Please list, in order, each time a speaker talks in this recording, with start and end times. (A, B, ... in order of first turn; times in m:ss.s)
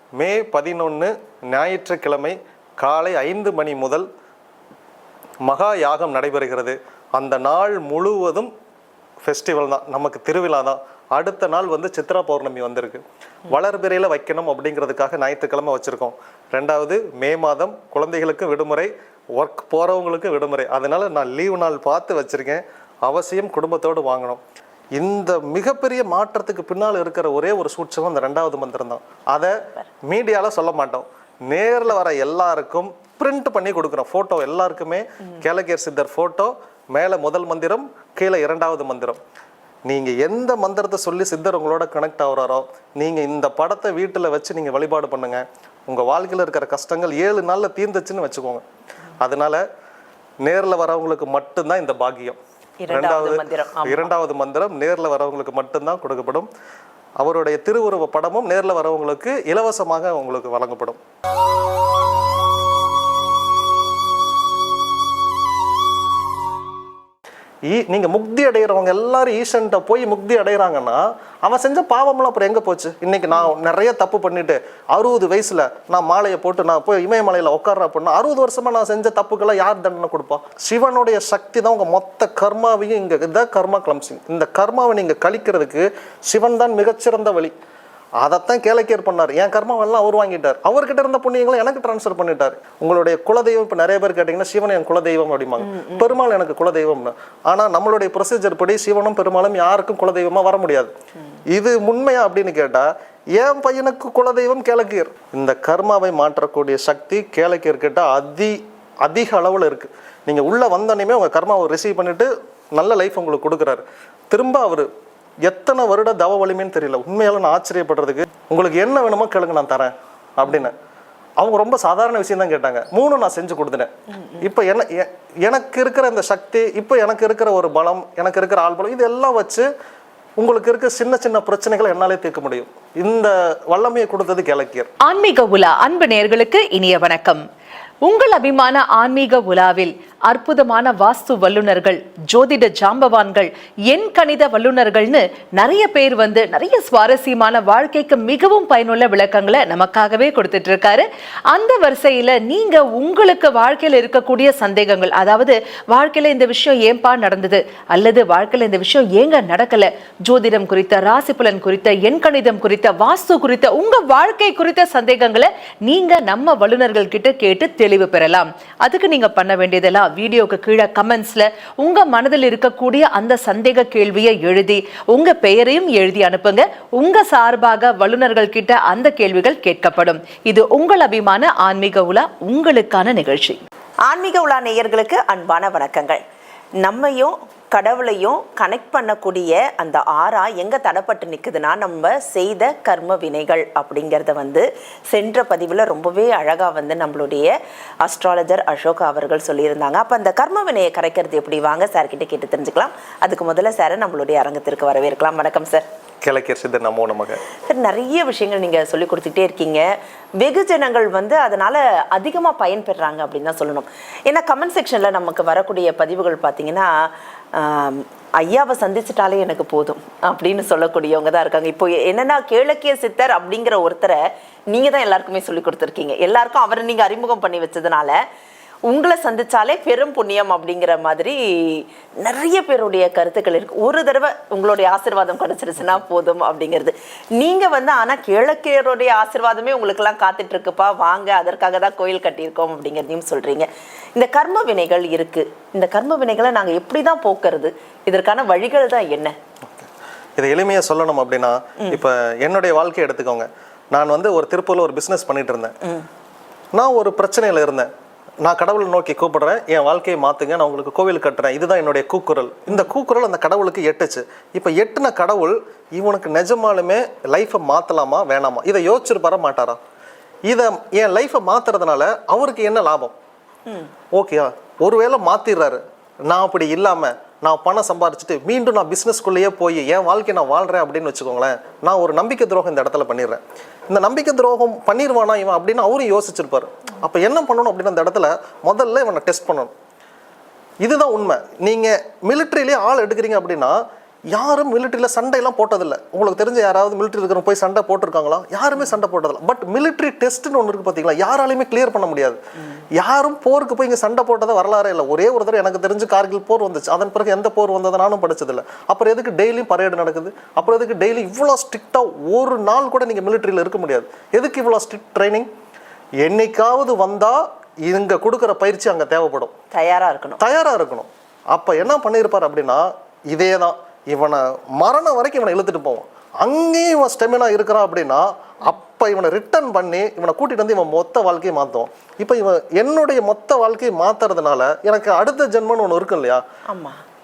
0:00.2-0:04.0 A
0:05.4-0:08.5 A
0:09.2-0:24.4 A
0:25.0-0:39.2 A
0:39.9-0:48.6 A
0:49.2-0:49.6 A
0:50.4-0:52.4 A
0:52.8-0:54.1 B
0:52.9-0:56.5 A
0:57.2-1:01.0 A
1:07.7-1:27.5 A
1:28.2-1:40.9 A
1:35.7-1:36.0 B
1:41.5-1:54.9 A
1:55.4-2:00.7 A
2:01.4-2:09.7 A
2:10.4-2:14.9 A
2:15.0-2:17.4 C
2:18.0-3:03.6 C
3:04.1-3:06.2 B
3:06.8-3:25.8 B
3:26.2-3:27.4 A
3:27.7-3:29.8 B
3:30.4-3:48.2 B
3:48.9-4:09.3 B
4:10.4-4:15.7 A
4:16.7-4:17.9 A
4:18.4-4:29.8 A
4:30.5-4:33.1 A
4:34.1-4:49.7 A
4:50.8-4:53.8 A
4:54.3-5:02.4 A
5:03.0-5:15.5 A
5:16.2-5:19.5 A
5:19.7-5:20.4 B
5:20.4-5:36.4 A
5:36.7-5:37.0 B